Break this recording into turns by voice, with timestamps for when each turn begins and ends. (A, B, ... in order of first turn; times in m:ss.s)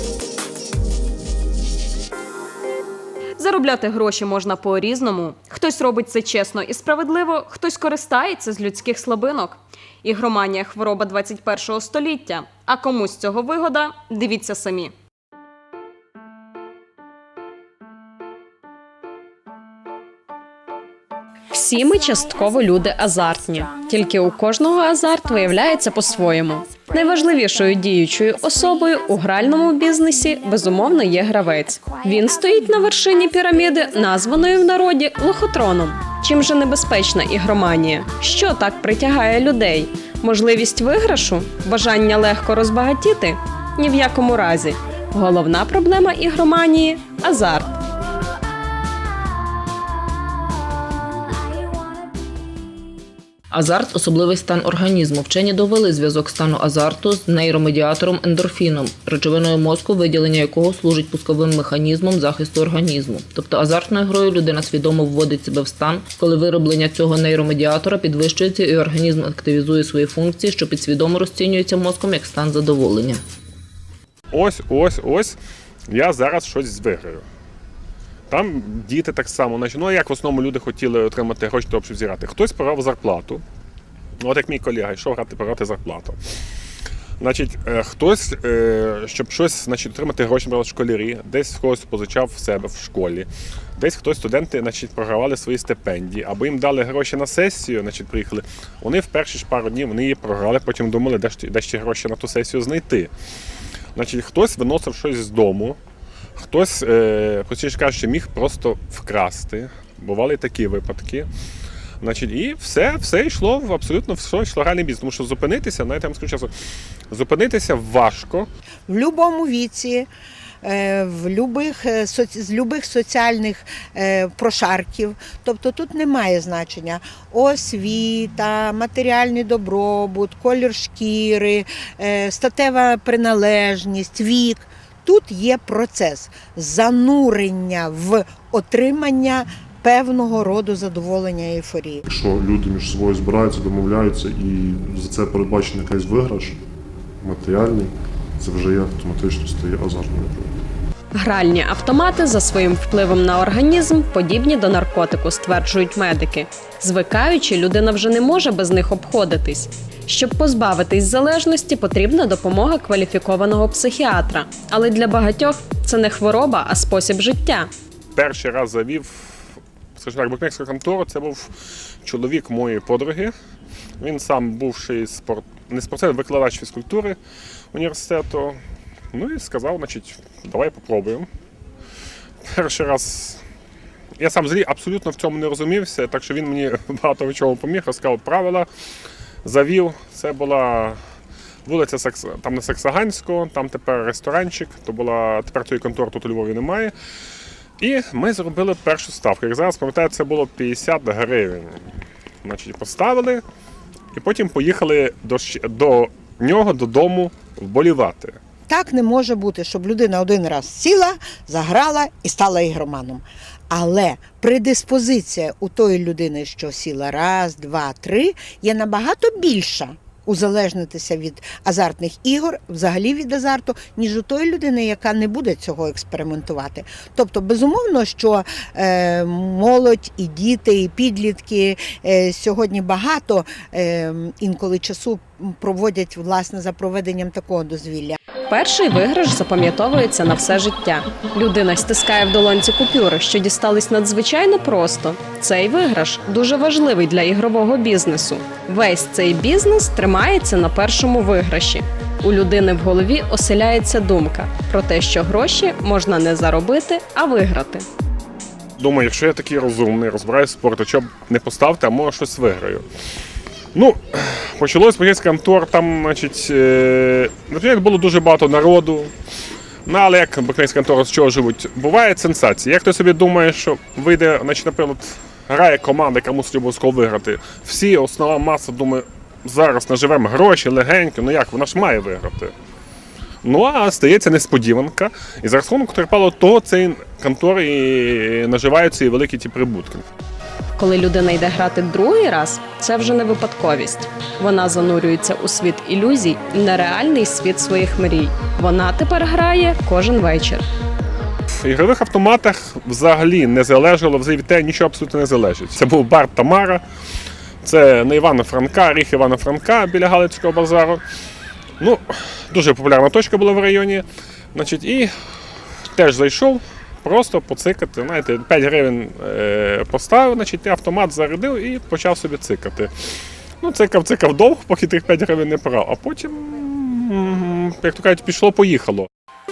0:03.4-0:14.9 A
0:21.5-0:47.7 A
0:53.5-1:13.2 B
1:14.3-1:15.4 C
1:15.9-1:17.2 C
1:18.3-1:23.4 C
1:24.2-1:26.2 C
1:27.2-1:43.1 C
1:44.0-1:45.8 C
1:46.4-1:51.3 C
1:52.0-1:56.5 C
1:57.1-1:58.5 C
1:58.9-2:00.1 D
2:00.6-2:22.0 D
2:22.0-2:26.6 E
2:27.2-2:30.6 E
2:31.2-2:47.7 A
2:48.2-2:51.5 C
2:52.0-2:53.3 C
2:54.0-2:57.2 C
2:57.7-2:58.6 C
2:59.1-3:01.3 C
3:02.4-3:03.4 C
3:04.2-3:08.7 C
3:09.4-3:11.0 C
3:11.6-3:16.9 C
3:17.8-3:21.9 C
3:22.4-3:23.4 C
3:24.1-3:28.4 C
3:28.7-3:58.2 D
3:58.5-4:17.9 A
4:18.8-4:22.8 C
4:23.8-4:29.1 C
4:29.9-4:42.5 C
4:43.4-4:50.0 C
4:50.8-5:00.7 A
5:01.6-5:06.8 C
5:07.6-5:11.0 C
5:11.8-5:15.1 C
5:15.9-5:22.9 C
5:23.6-5:29.1 C